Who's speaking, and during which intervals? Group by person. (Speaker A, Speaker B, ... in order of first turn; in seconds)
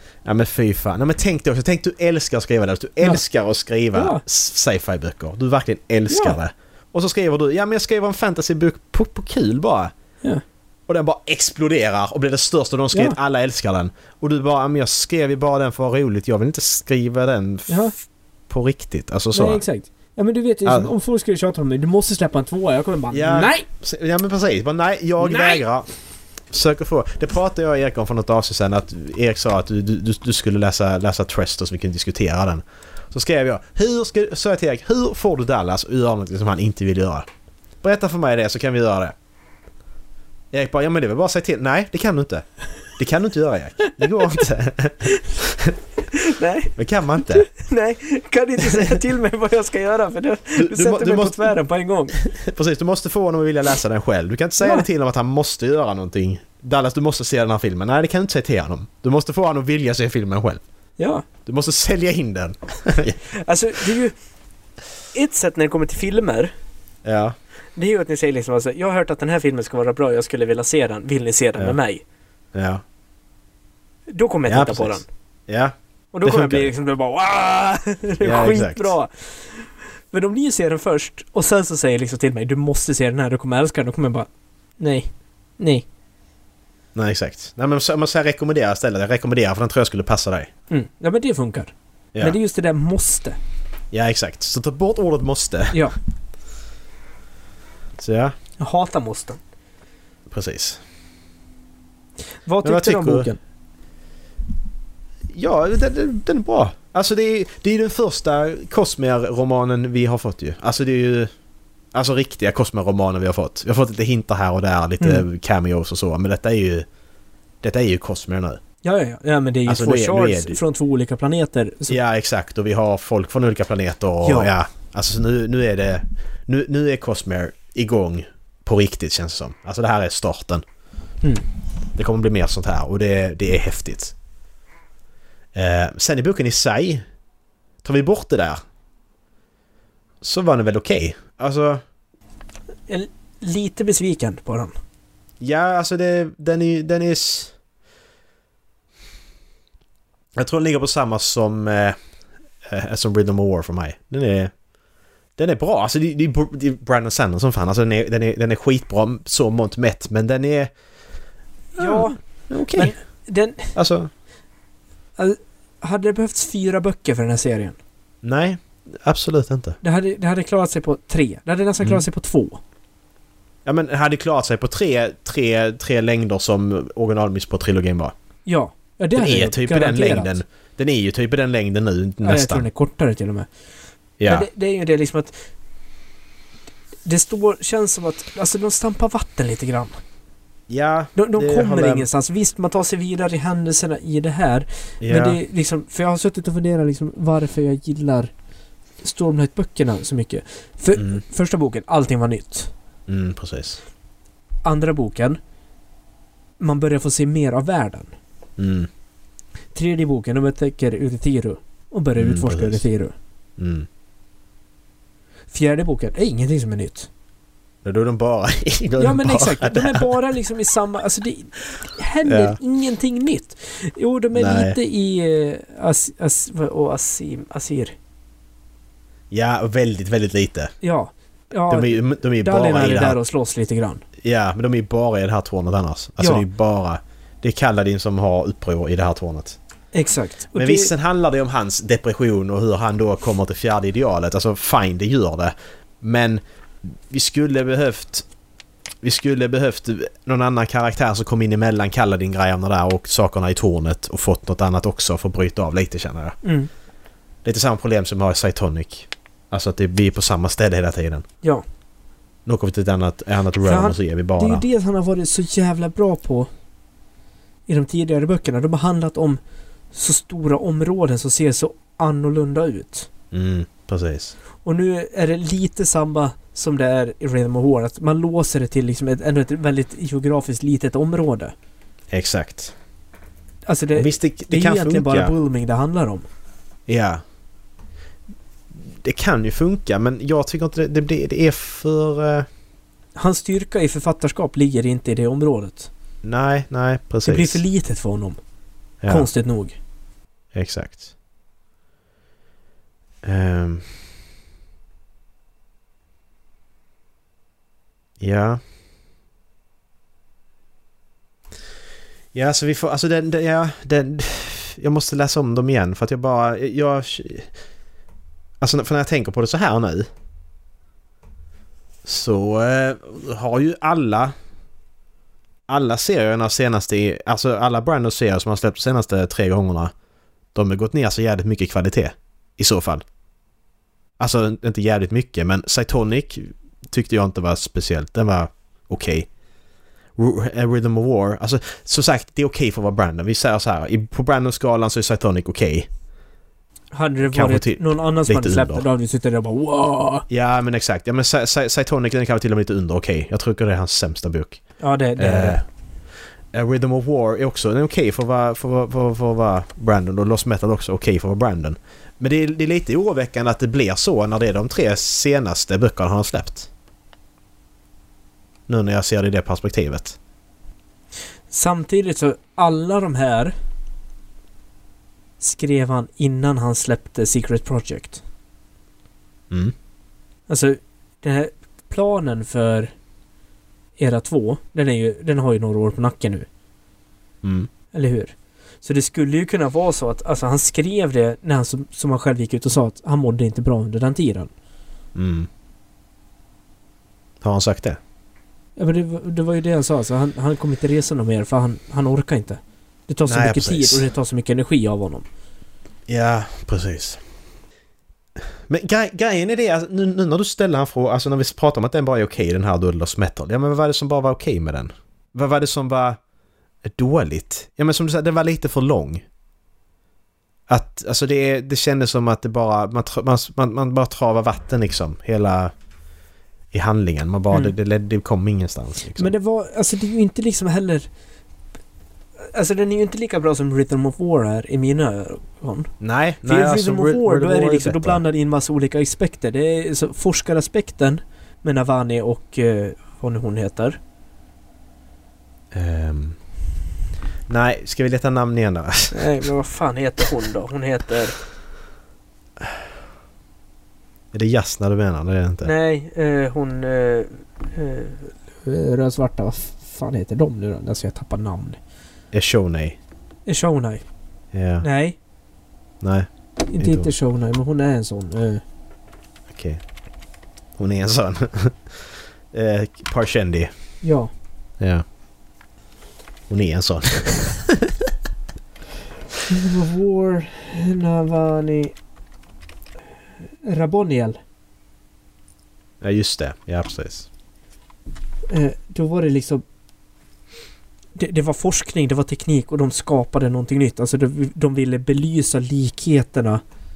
Speaker A: 0.2-9.9, 10.9-17.9, 18.5-19.6, 20.6-20.9, 23.1-25.9, 26.5-37.2, 37.8-39.1, 40.5-45.8, 46.7-47.5, 48.7-48.9, 50.6-51.5, 52.2-60.6, 61.5-63.2, 67.0-67.3, 72.5-72.8, 74.5-76.7, 78.2-78.9, 86.9-90.5, 93.9-95.8, 98.0-98.3, 100.3-100.8, 102.6-103.3, 105.3-111.3, 111.9-116.8, 117.6-118.6, 119.7-120.6, 121.9-130.6, 131.9-134.1, 135.5-137.0, 137.8-138.6, 140.2-141.8, 145.4-147.5, 150.4-151.9, 152.6-154.5, 155.4-160.7, 161.8-162.9, 163.7-164.1, 168.2-169.8, 173.6-178.1, 179.1-182.7, 184.2-184.5, 190.7-192.1, 195.0-195.4, 200.9-201.2, 203.1-203.8, 208.6-208.9, 212.2-212.8, 213.6-213.9, 217.8-220.1, 222.2-222.6, 224.3-224.8, 229.3-230.7, 231.7-233.2, 234.2-239.6, 240.5-248.2, 249.0-256.4, 257.4-261.2, 262.4-264.6, 273.3-274.3, 282.1-282.7, 284.0-285.3, 286.9-287.2, 288.7-292.4, 296.2-297.6, 299.0-299.3, 300.5-301.0, 303.2-303.9, 308.2-308.6, 312.3-317.5, 318.6-320.1, 322.0-324.3, 325.7-329.9, 330.5-333.0, 334.2-339.3, 340.2-345.9, 347.2-348.8, 350.3-354.6, 355.2-355.6, 356.5-366.7, 368.7-370.2, 387.4-387.7, 395.1-395.5, 397.4-398.0, 403.3-404.0, 406.1-407.2, 408.7-416.2, 416.8-419.2, 420.7-425.7, 426.7-429.3, 436.0-438.2, 445.7-446.4, 447.5-449.3, 454.3-455.7, 462.3-463.0, 464.5-464.8, 466.0-467.1, 469.5-469.8, 470.8-473.7, 476.5-478.1, 486.0-487.3
Speaker B: 3.9-4.2, 6.1-6.4, 17.7-17.9, 19.3-23.6, 25.2-25.6, 46.1-52.2, 54.6-54.9, 61.0-61.2, 63.3-64.1, 65.1-66.5, 67.8-72.0, 74.1-75.0, 76.1-84.3, 84.8-85.8, 90.7-93.4, 98.6-99.4, 102.4-103.4, 118.8-122.0, 124.2-124.5, 142.9-144.7, 161.8-162.2, 162.7-163.7, 165.2-167.8, 169.8-172.6, 178.4-180.4, 182.2-183.5, 184.2-185.3, 187.0-190.0, 191.2-198.3, 199.0-202.7, 204.6-205.4, 206.6-208.1, 209.7-213.1, 215.5-217.1, 219.0-227.9, 230.8-234.0, 236.2-236.5, 239.9-240.9, 256.4-256.7, 263.6-266.5, 267.7-269.4, 269.9-273.1, 274.6-281.5, 283.6-286.2, 293.1-295.9, 297.2-298.4, 299.1-299.8, 346.9-350.2, 354.8-355.6, 371.5-373.5, 375.4-378.2, 380.5-382.9, 384.0-386.5, 387.9-394.5, 398.8-405.2, 429.2-431.1, 432.4-435.9, 436.4-444.0, 449.1-451.4, 455.6-461.8, 463.5-464.0, 464.8-465.1, 466.7-468.6, 474.0-474.3, 479.5-481.9, 483.6-484.4, 488.5-489.6, 491.1-496.6